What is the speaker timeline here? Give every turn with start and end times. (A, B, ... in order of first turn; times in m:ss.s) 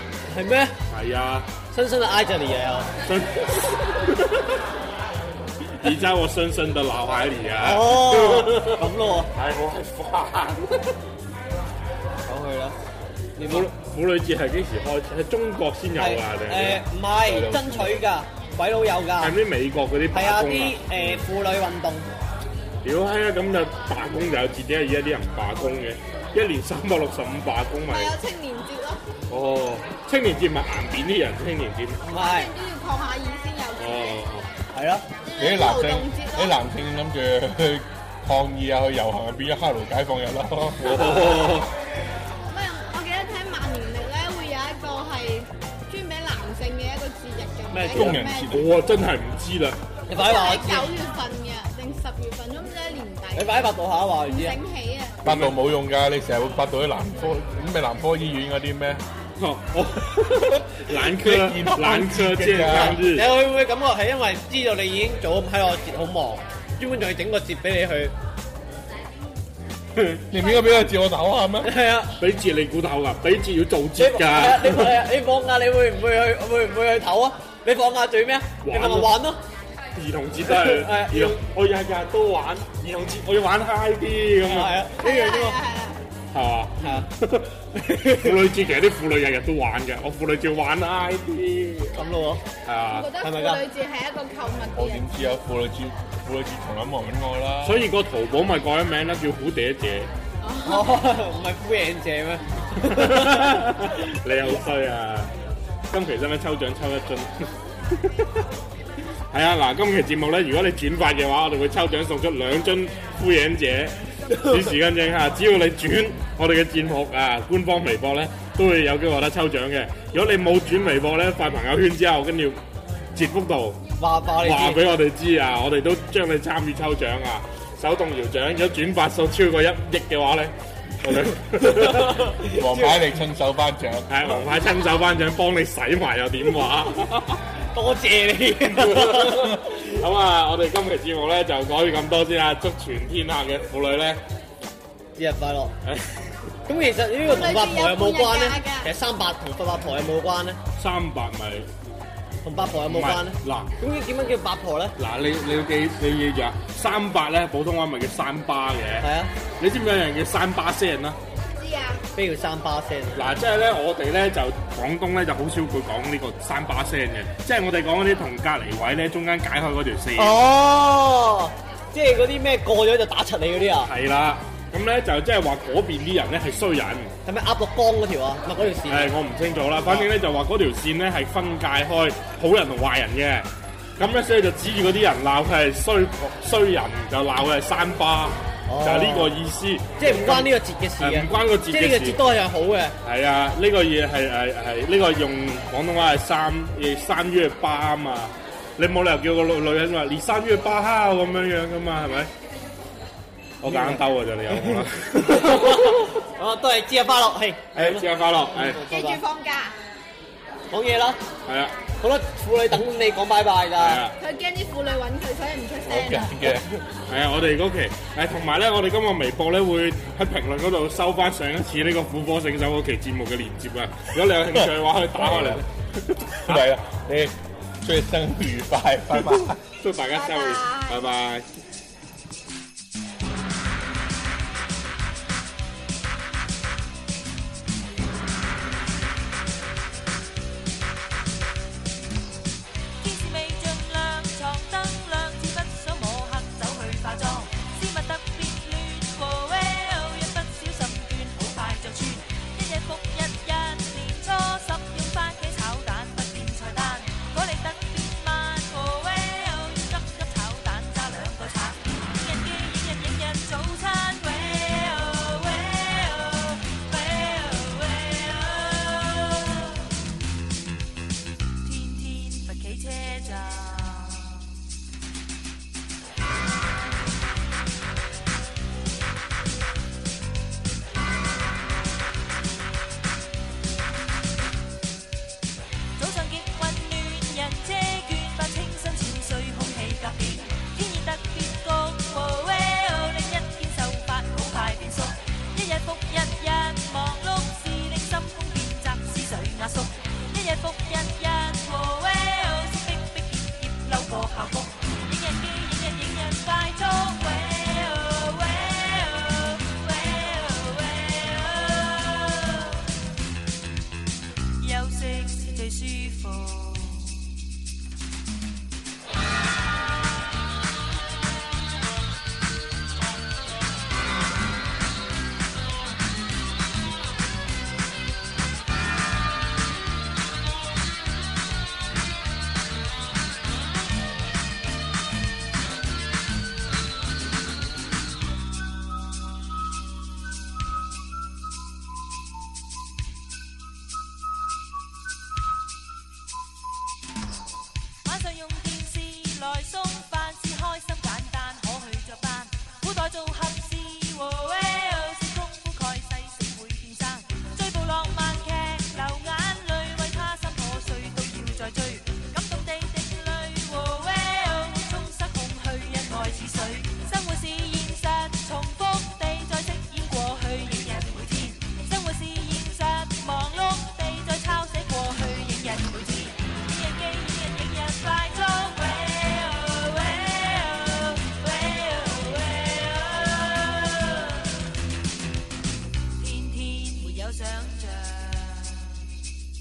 0:00.2-0:00.7 A
0:00.9-0:01.5 B
0:01.7-0:02.9 A
0:03.0-0:04.6 B
0:05.7-0:11.0 B
0:07.6-0:09.3 A
0:12.2-0:12.8 A
0:13.4-0:13.7 A
0:13.4-0:16.8 B
0:15.9-0:19.4 A
0:17.2-0:18.0 C
0:19.2-0:21.2 B
0:20.1-0:22.1 A
0:22.8-0:28.1 B
0:27.9-0:29.0 D
0:29.3-0:32.0 B
0:32.0-0:32.5 A
0:32.1-0:34.2 D
0:33.8-0:34.5 B
0:34.7-0:35.1 A
0:35.2-0:36.6 D
0:35.4-0:41.4 C
0:40.8-0:41.7 B
0:42.5-0:48.5 D
0:47.7-0:49.8 B
0:47.8-0:48.7 C
0:50.1-0:50.9 A
0:50.1-0:53.7 D
0:53.3-0:54.6 A
0:54.2-0:55.2 D
0:55.2-0:59.0 C
0:55.2-0:55.5 B
0:59.4-1:03.3 B
1:00.9-1:03.0 C
1:02.6-1:08.1 A
1:10.0-1:10.2 B
1:10.3-1:11.7 C
1:11.6-1:12.1 A
1:12.2-1:15.0 B
1:14.0-1:19.4 A
1:18.6-1:19.1 B
1:19.9-1:24.8 B
1:20.4-1:21.4 A
1:24.4-1:25.6 A
1:25.0-1:26.0 D
1:26.3-1:27.5 B
1:26.8-1:27.1 A
1:27.8-1:28.4 A
1:28.1-1:32.0 B
1:31.9-1:32.4 A
1:32.6-1:33.2 B
1:32.9-1:35.2 D
1:33.2-1:33.6 A
1:34.7-1:37.9 C
1:37.6-1:40.1 B
1:40.4-1:41.0 D
1:40.6-1:43.4 A
1:42.8-1:45.3 B
1:45.9-1:48.2 B
1:49.3-2:02.6 B
2:03.1-2:03.8 B
2:04.0-2:04.8 A
2:04.4-2:12.2 B
2:11.7-2:13.1 A
2:12.4-2:14.1 C
2:14.1-2:17.4 B
2:17.7-2:19.5 A
2:18.6-2:24.2 B
2:25.2-2:25.7 A
2:25.8-2:26.3 B
2:26.7-2:30.6 A
2:27.2-2:28.9 D
2:30.7-2:31.7 B
2:32.4-2:34.9 A
2:32.9-2:33.7 B
2:35.0-2:41.2 B
2:39.0-2:39.3 A
2:41.6-2:42.1 D
2:42.1-2:43.2 A
2:43.1-2:50.4 B
2:50.2-2:53.9 A
2:53.8-2:57.1 B
2:57.2-2:59.1 A
2:58.9-3:12.2 B
2:59.8-3:00.1 A
3:08.6-3:09.4 A
3:10.0-3:12.9 A
3:13.0-3:22.3 B
3:23.6-3:26.1 B
3:23.6-3:29.2 A
3:27.7-3:28.9 B
3:28.9-3:29.8 D
3:30.7-3:31.2 A
3:31.4-3:31.8 B
3:32.0-3:34.0 A
3:33.8-3:34.2 B
3:34.2-3:36.6 D
3:35.8-3:36.8 C
3:37.1-3:46.6 B
3:44.5-3:45.6 C
3:46.4-3:49.6 C
3:49.7-3:51.5 B
3:50.1-3:51.0 D
4:03.0-4:29.9 E
4:31.6-4:34.5 E
4:46.0-5:12.9 E
5:14.6-5:17.2 E
5:48.0-6:24.7 E
6:26.2-6:29.1 E